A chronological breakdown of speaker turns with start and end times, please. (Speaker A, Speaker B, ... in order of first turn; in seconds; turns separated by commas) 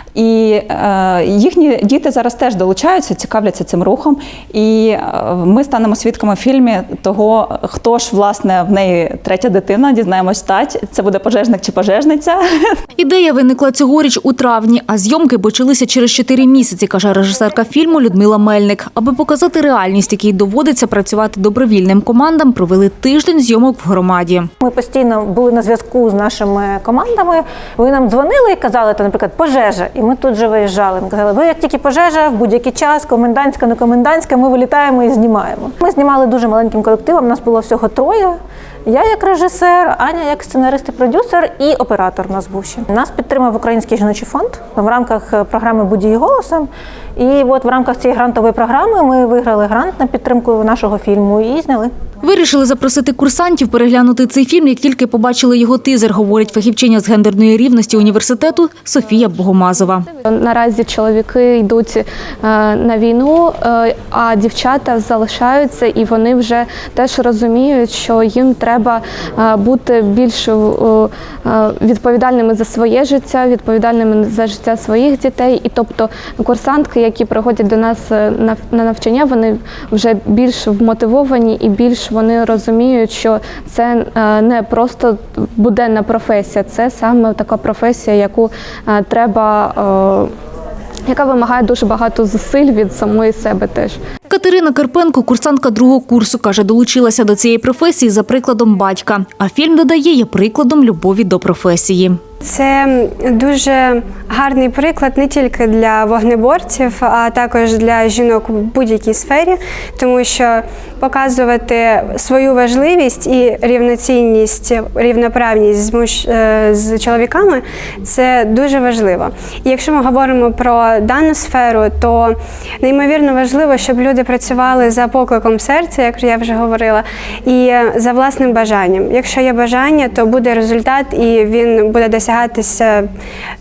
Speaker A: 0.1-12.8, Speaker B: 13.0-24.5, Speaker C: 24.6-51.9, Speaker B: 52.2-60.1, Speaker D: 60.3-90.3, Speaker D: 91.1-94.0, Speaker B: 94.3-102.2, Speaker E: 102.4-133.1